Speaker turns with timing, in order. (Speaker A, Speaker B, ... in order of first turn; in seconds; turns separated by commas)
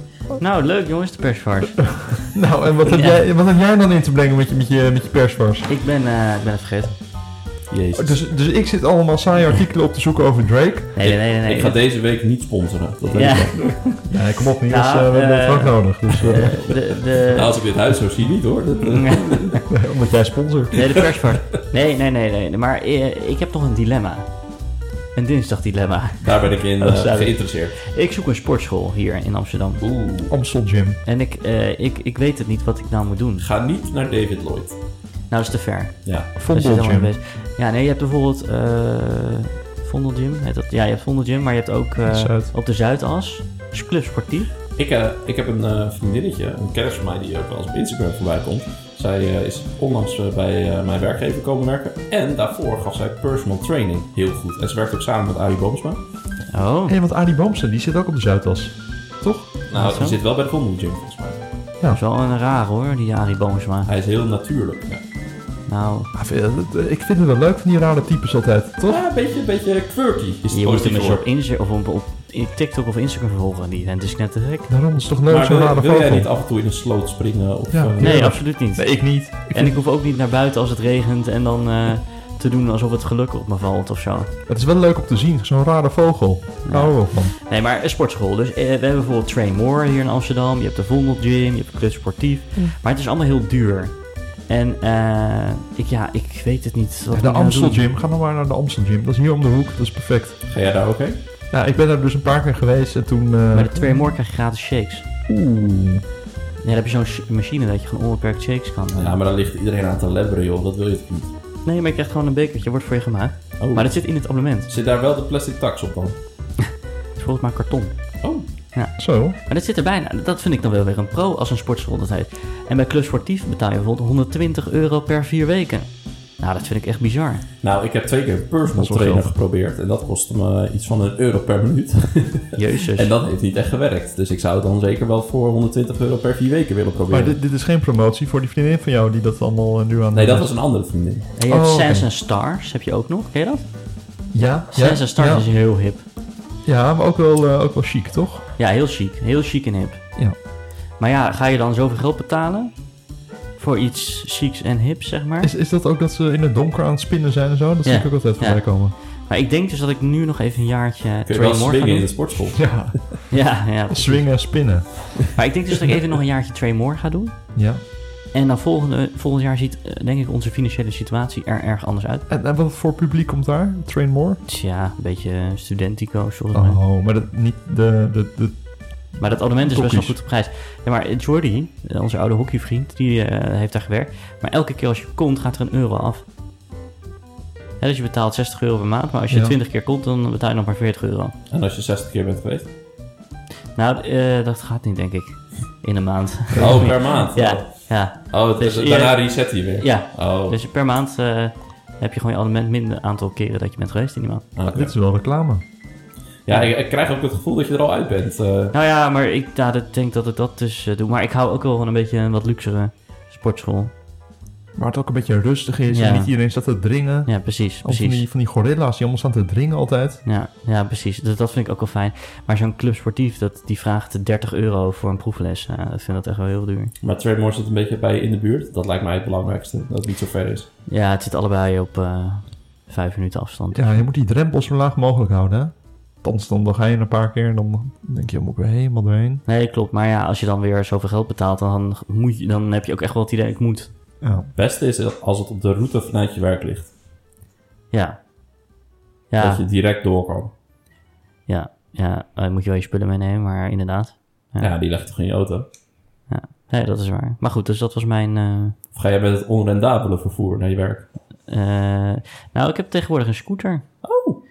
Speaker A: 0.4-2.2, Speaker B: 2.1-5.7, Speaker A: 2.9-3.2, Speaker A: 5.7-6.9, Speaker C: 7.7-8.2, Speaker B: 8.0-10.9, Speaker A: 10.9-11.8, Speaker C: 11.0-13.8, Speaker A: 13.1-14.1, Speaker B: 14.1-16.7, Speaker A: 14.7-17.5, Speaker C: 17.3-19.6, Speaker A: 18.9-19.6, Speaker B: 19.7-21.0, Speaker A: 20.7-24.3, Speaker A: 25.1-29.8, Speaker C: 26.2-27.8, Speaker C: 29.8-30.3, Speaker B: 30.3-31.0, Speaker A: 31.1-33.5, Speaker C: 33.4-34.8, Speaker A: 35.3-44.5, Speaker B: 36.4-37.1, Speaker B: 42.0-42.5, Speaker C: 44.8-56.0, Speaker A: 56.5-57.0, Speaker B: 56.9-59.6, Speaker C: 59.7-61.4, Speaker A: 59.7-60.2, Speaker A: 61.9-63.9, Speaker C: 63.9-65.0, Speaker A: 65.7-66.1, Speaker B: 66.1-69.0, Speaker C: 68.8-71.2, Speaker A: 70.5-74.7, Speaker B: 74.7-76.3, Speaker C: 75.3-78.4, Speaker B: 77.7-79.8, Speaker A: 78.0-84.3, Speaker B: 84.5-87.3, Speaker A: 86.6-93.9, Speaker A: 94.5-97.9, Speaker B: 97.1-100.4, Speaker C: 100.5-101.2, Speaker B: 101.5-104.1, Speaker A: 103.5-105.0, Speaker B: 105.3-106.0, Speaker A: 106.6-109.2, Speaker C: 108.9-111.3, Speaker A: 111.6-114.7, Speaker C: 113.6-114.0, Speaker C: 114.7-116.2, Speaker A: 117.2-117.9, Speaker A: 118.7-127.5, Speaker B: 119.0-119.4, Speaker C: 127.6-137.3, Speaker A: 128.7-129.3, Speaker A: 132.6-133.1, Speaker B: 137.1-140.5, Speaker C: 140.1-141.3, Speaker A: 141.4-143.6, Speaker B: 141.5-142.1, Speaker B: 144.3-145.5, Speaker A: 144.7-146.0, Speaker B: 146.6-148.4, Speaker A: 148.6-150.0, Speaker A: 151.0-152.7, Speaker A: 153.6-155.5, Speaker B: 155.4-158.9, Speaker A: 157.8-162.1, Speaker C: 161.3-163.0, Speaker B: 162.5-163.3, Speaker A: 163.3-164.4, Speaker B: 163.9-165.3, Speaker A: 165.3-167.5, Speaker B: 167.5-167.8, Speaker A: 168.3-172.2, Speaker B: 172.3-174.4, Speaker A: 174.4-176.8, Speaker B: 176.5-180.2, Speaker A: 179.2-186.2, Speaker A: 187.8-191.3, Speaker B: 189.3-189.6, Speaker C: 191.5-192.7, Speaker A: 193.7-204.4, Speaker B: 196.5-196.9, Speaker C: 196.6-200.6, Speaker C: 204.6-204.9, Speaker B: 204.7-205.6, Speaker C: 206.4-208.7, Speaker A: 208.7-213.9, Speaker B: 214.8-220.2, Speaker A: 215.9-216.3, Speaker A: 217.2-218.2, Speaker A: 220.2-226.9, Speaker C: 227.0-230.7, Speaker A: 230.9-233.9, Speaker B: 233.7-239.4, Speaker A: 239.4-243.9, Speaker B: 244.2-244.5, Speaker C: 244.5-246.9, Speaker A: 247.9-248.2, Speaker A: 249.3-249.6, Speaker C: 249.4-250.5, Speaker A: 251.5-254.7, Speaker C: 254.6-255.7, Speaker A: 256.3-258.8, Speaker C: 258.9-261.1, Speaker A: 261.5-263.9, Speaker C: 264.0-264.4